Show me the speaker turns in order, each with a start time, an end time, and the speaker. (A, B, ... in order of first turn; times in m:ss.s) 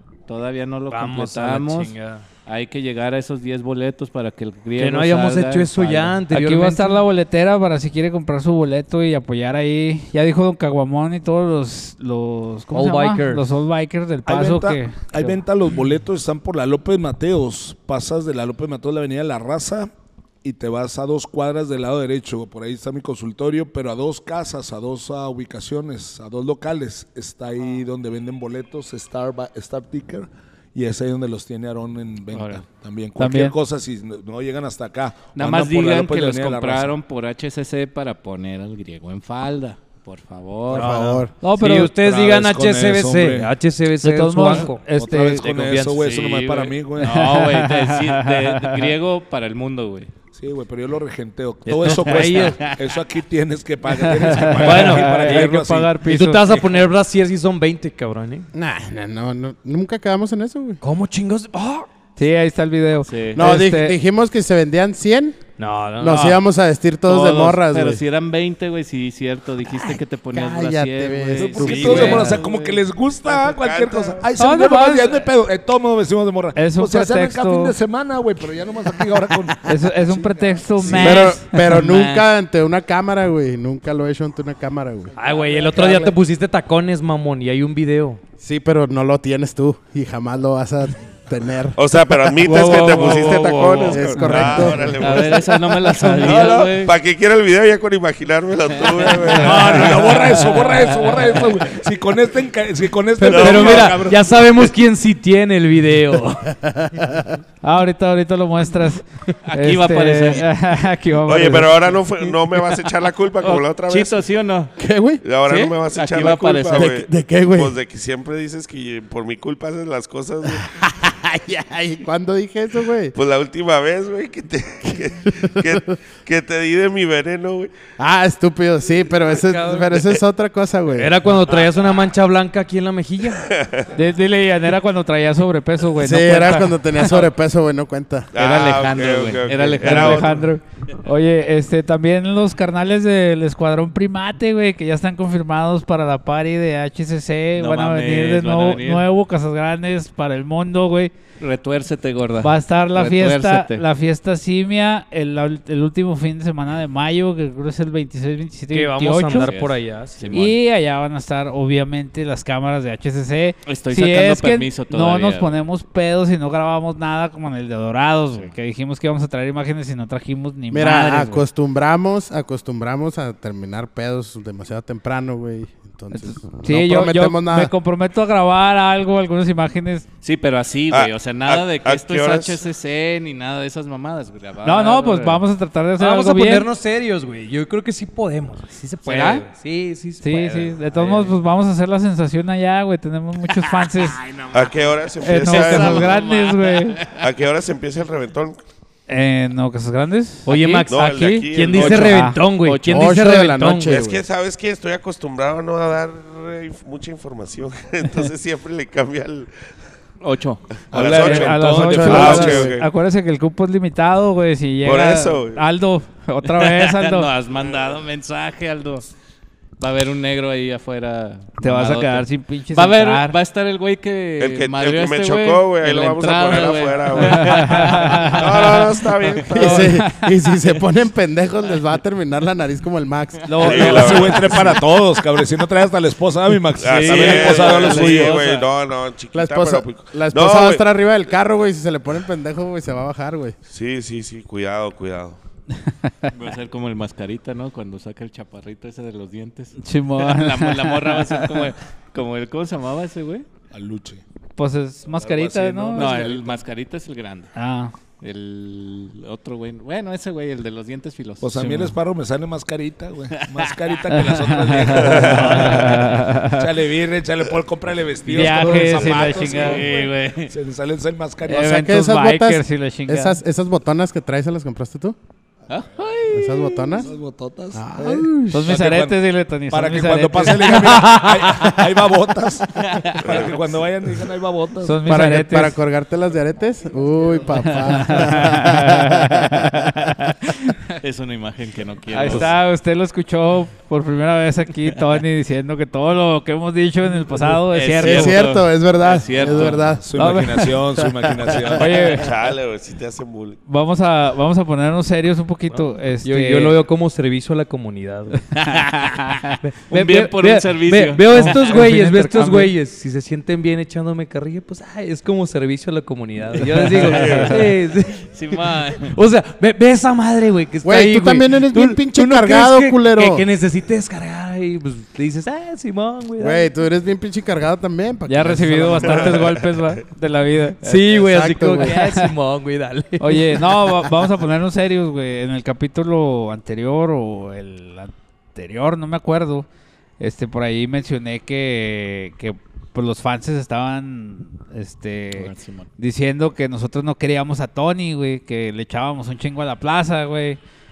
0:00.3-0:01.9 A
0:00.9-0:02.3 B
0:02.4-0:06.2 A
0:04.8-0:07.0 B
0:06.3-0:15.4 C
0:12.7-0:13.5 B
0:14.3-0:19.9 D
0:20.4-0:36.9 D
0:32.3-0:32.6 A
0:33.2-0:33.6 C
0:35.4-0:41.2 A
0:40.7-0:41.3 E
0:40.7-0:44.9 B
0:41.4-0:41.9 C
0:41.8-0:43.5 D
0:44.0-0:45.6 C
0:44.9-0:47.3 D
0:45.5-0:46.0 B
0:46.0-0:50.1 A
0:47.0-0:48.9 C
0:50.3-0:56.0 D
0:51.6-0:52.7 B
0:51.9-0:52.5 A
0:54.1-0:56.4 C
0:54.6-0:58.5 B
0:58.5-1:00.8 E
1:00.8-1:01.9 B
1:02.2-1:04.0 C
1:03.1-1:03.4 A
1:03.4-1:05.4 E
1:05.6-1:06.4 B
1:06.0-1:08.0 E
1:07.0-1:12.8 A
1:09.7-1:12.3 E
1:11.4-1:21.1 D
1:11.8-1:12.2 C
1:11.9-1:12.2 B
1:13.3-1:14.2 F
1:14.4-1:15.2 C
1:16.6-1:17.7 C
1:19.6-1:21.9 C
1:20.8-1:25.1 E
1:25.2-1:28.2 B
1:25.2-1:26.1 D
1:28.4-1:31.8 E
1:31.8-1:39.9 F
1:32.4-1:36.9 A
1:33.8-1:35.0 E
1:38.9-1:39.8 A
1:39.3-1:44.4 D
1:39.5-1:40.4 B
1:43.2-1:46.6 B
1:43.2-1:44.0 F
1:46.6-1:47.4 E
1:47.6-1:51.8 C
1:49.4-1:50.5 A
1:51.3-1:54.2 F
1:53.4-1:54.7 A
1:54.8-1:55.2 E
1:55.2-2:00.7 F
1:55.4-1:57.0 A
1:56.7-1:57.8 E
2:00.4-2:03.1 E
2:03.1-2:07.7 F
2:05.3-2:05.8 E
2:08.0-2:11.1 E
2:09.4-2:10.0 B
2:11.0-2:13.4 B
2:13.4-2:13.9 F
2:13.9-2:17.2 C
2:16.0-2:18.3 E
2:18.3-2:20.5 F
2:18.4-2:20.4 A
2:19.8-2:31.1 C
2:27.6-2:29.1 A
2:31.4-2:33.8 A
2:32.4-2:39.5 C
2:38.7-2:40.4 B
2:39.3-2:40.6 A
2:40.3-2:51.4 C
2:43.6-2:45.6 A
2:50.7-2:57.7 E
2:56.1-3:00.1 C
3:00.2-3:05.4 A
3:00.9-3:02.6 F
3:04.6-3:06.7 C
3:06.0-3:10.8 B
3:09.0-3:09.4 C
3:10.2-3:14.2 C
3:10.9-3:11.3 A
3:14.2-3:14.6 B
3:14.5-3:16.2 F
3:15.2-3:17.0 C
3:15.4-3:16.1 B
3:15.8-3:17.1 A
3:17.1-3:18.6 F
3:19.1-3:20.9 C
3:20.4-3:24.0 B
3:20.9-3:22.2 F
3:21.7-3:22.4 C
3:22.6-3:23.2 A
3:22.9-3:24.2 E
3:23.9-3:29.5 F
3:30.2-3:30.6 A
3:30.9-3:32.6 D
3:30.9-3:32.9 F
3:31.1-3:37.3 C
3:31.9-3:32.7 E
3:34.8-3:35.6 F
3:36.6-3:39.1 A
3:39.8-3:49.4 A
3:41.6-3:43.4 C
3:44.4-3:50.0 F
3:47.2-3:48.5 C
3:49.5-3:53.5 E
3:49.6-3:50.3 C
3:53.4-3:54.8 C
3:53.6-3:54.8 F
3:53.6-3:53.8 A
3:53.6-3:58.4 D
3:56.8-4:00.8 F
3:56.8-3:58.7 A
3:59.3-4:03.6 E
4:03.7-4:05.4 F
4:06.3-4:13.4 A
4:09.8-4:11.7 C
4:13.7-4:14.2 D
4:14.6-4:16.3 C
4:15.2-4:16.6 D
4:15.9-4:17.5 A
4:17.6-4:17.9 C
4:18.2-4:21.9 A
4:21.4-4:31.8 D
4:23.4-4:23.8 A
4:24.1-4:26.7 C
4:24.9-4:26.2 A
4:25.1-4:25.4 F
4:28.3-4:29.8 C
4:28.4-4:30.5 A
4:29.1-4:29.7 E
4:31.4-4:33.4 C
4:31.6-4:35.2 E
4:35.7-4:37.1 A
4:36.3-4:37.1 E
4:37.0-4:45.0 D
4:37.7-4:38.7 E
4:38.5-4:40.8 C
4:40.8-4:41.8 B
4:42.8-4:43.5 A
4:44.8-4:45.8 C
4:45.1-4:49.9 E
4:47.6-4:50.8 C
4:51.0-4:52.5 A
4:52.1-4:58.4 C
4:57.7-5:00.0 A
4:58.0-5:00.1 E
4:59.4-5:02.0 D
5:00.1-5:00.7 C
5:01.7-5:02.3 C
5:02.1-5:03.6 F
5:03.7-5:06.8 C
5:05.7-5:08.4 B
5:08.7-5:09.6 C
5:09.6-5:26.7 B
5:09.9-5:11.8 A
5:11.3-5:12.7 C
5:16.9-5:17.6 C
5:17.0-5:17.4 A
5:17.0-5:17.6 F
5:18.2-5:19.1 A
5:20.8-5:23.4 E
5:26.4-5:29.6 E
5:28.3-5:31.0 C
5:30.8-5:33.8 B
5:31.1-5:31.9 E
5:31.8-5:32.3 C
5:33.2-5:39.7 C
5:40.2-5:50.6 C
5:45.3-5:45.9 A